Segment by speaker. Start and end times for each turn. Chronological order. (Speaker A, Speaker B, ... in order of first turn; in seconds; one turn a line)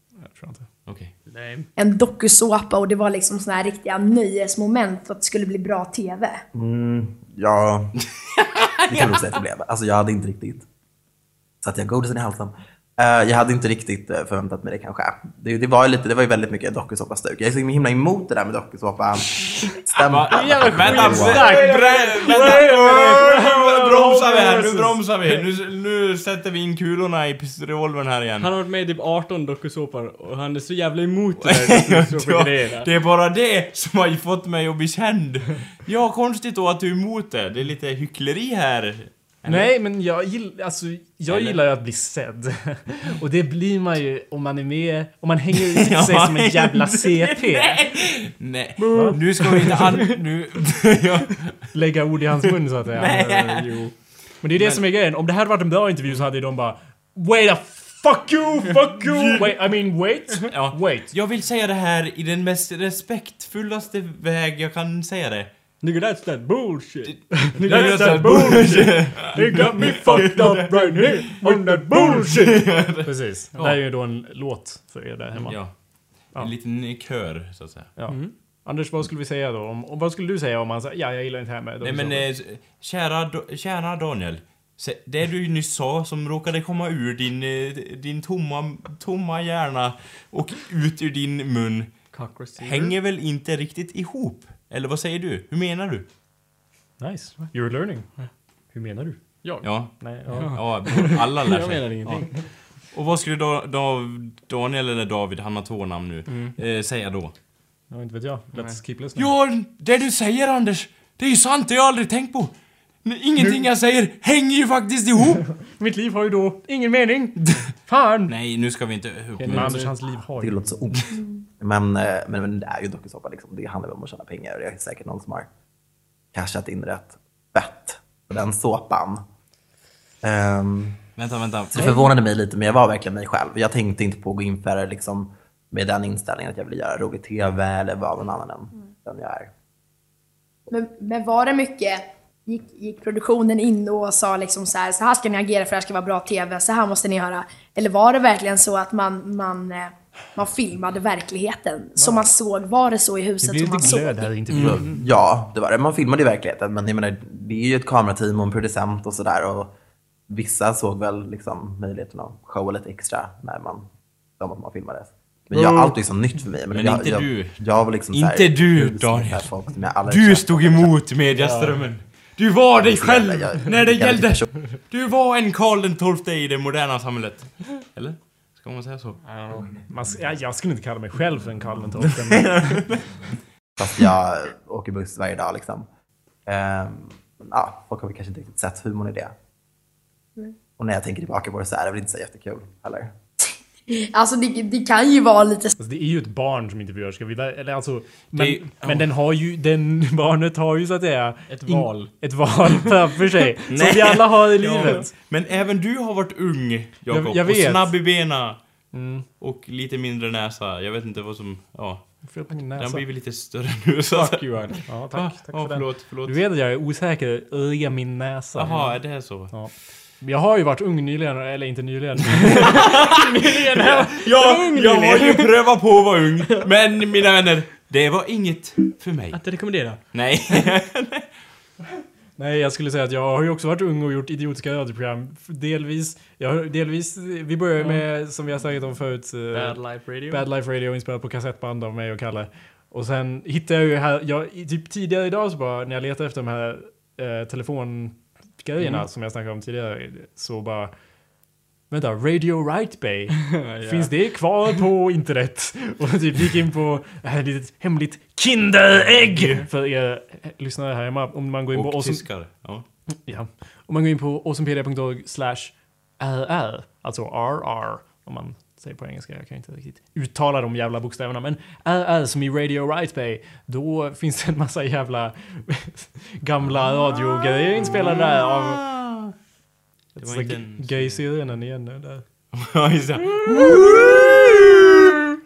Speaker A: 0.2-0.7
Speaker B: 0.9-1.1
Speaker C: 1.3-1.7
Speaker D: 1.8-6.4
Speaker E: 6.5-7.9
Speaker B: 8.3-9.4
Speaker E: 8.9-10.7
Speaker E: 11.6-21.5
Speaker B: 20.1-28.5
Speaker C: 20.3-23.2
Speaker A: 21.2-25.3
Speaker C: 28.4-32.9
Speaker B: 31.4-39.8
Speaker A: 39.5-47.8
Speaker B: 41.3-41.6
Speaker B: 45.5-51.7
Speaker C: 48.8-50.2
Speaker A: 48.9-49.2
Speaker A: 51.7-53.8
Speaker B: 53.0-54.9
Speaker C: 53.0-54.0
Speaker A: 54.4-61.1
Speaker B: 59.0-59.7
Speaker B: 60.5-65.5
Speaker C: 65.8-72.7
Speaker B: 67.0-71.4
Speaker A: 67.6-76.5
Speaker B: 72.0-73.8
Speaker B: 75.4-77.9
Speaker A: 78.0-82.3
Speaker C: 78.1-78.3
Speaker B: 81.8-92.1
Speaker C: 92.1-92.9
Speaker B: 92.6-96.0
Speaker A: 97.0-98.1
Speaker A: 98.7-101.0
Speaker B: 99.6-107.3
Speaker C: 100.3-102.5
Speaker C: 106.3-106.5
Speaker A: 107.9-109.3
Speaker B: 109.2-115.5
Speaker A: 115.6-118.3
Speaker B: 118.3-119.9
Speaker C: 119.4-119.9
Speaker A: 119.5-120.7
Speaker E: 120.4-125.5
Speaker E: 126.3-129.2
Speaker E: 130.2-131.0
Speaker B: 131.2-132.0
Speaker E: 131.7-139.5
Speaker D: 140.7-154.3
Speaker A: 152.0-152.3
Speaker A: 153.4-155.1
Speaker C: 154.5-154.8
Speaker E: 154.6-159.7
Speaker E: 160.3-163.9
Speaker E: 164.4-171.0
Speaker C: 165.5-166.0
Speaker B: 166.7-179.2
Speaker C: 171.3-171.9
Speaker E: 172.8-174.5
Speaker C: 179.2-179.7
Speaker A: 179.9-182.9
Speaker B: 182.0-183.2
Speaker E: 183.8-185.9
Speaker E: 186.5-189.3
Speaker E: 190.8-193.1
Speaker D: 193.9-195.7
Speaker A: 195.8-205.1
Speaker B: 198.3-199.1
Speaker C: 201.5-202.1
Speaker B: 203.7-216.4
Speaker A: 207.1-208.2
Speaker A: 208.9-209.3
Speaker A: 212.2-213.1
Speaker C: 214.1-214.9
Speaker A: 214.9-222.8
Speaker B: 218.6-219.8
Speaker C: 218.6-218.9
Speaker C: 222.6-225.8
Speaker B: 223.9-229.4
Speaker C: 229.3-230.6
Speaker B: 230.1-231.3
Speaker A: 232.4-250.9
Speaker C: 237.8-238.1
Speaker C: 239.5-240.5
Speaker C: 248.8-249.1
Speaker A: 251.9-262.4
Speaker C: 253.5-254.2
Speaker B: 259.3-259.6
Speaker B: 261.7-262.9
Speaker A: 263.1-278.9
Speaker B: 277.8-279.3
Speaker A: 280.1-282.2
Speaker B: 280.2-281.2
Speaker B: 282.5-285.1
Speaker A: 283.4-284.2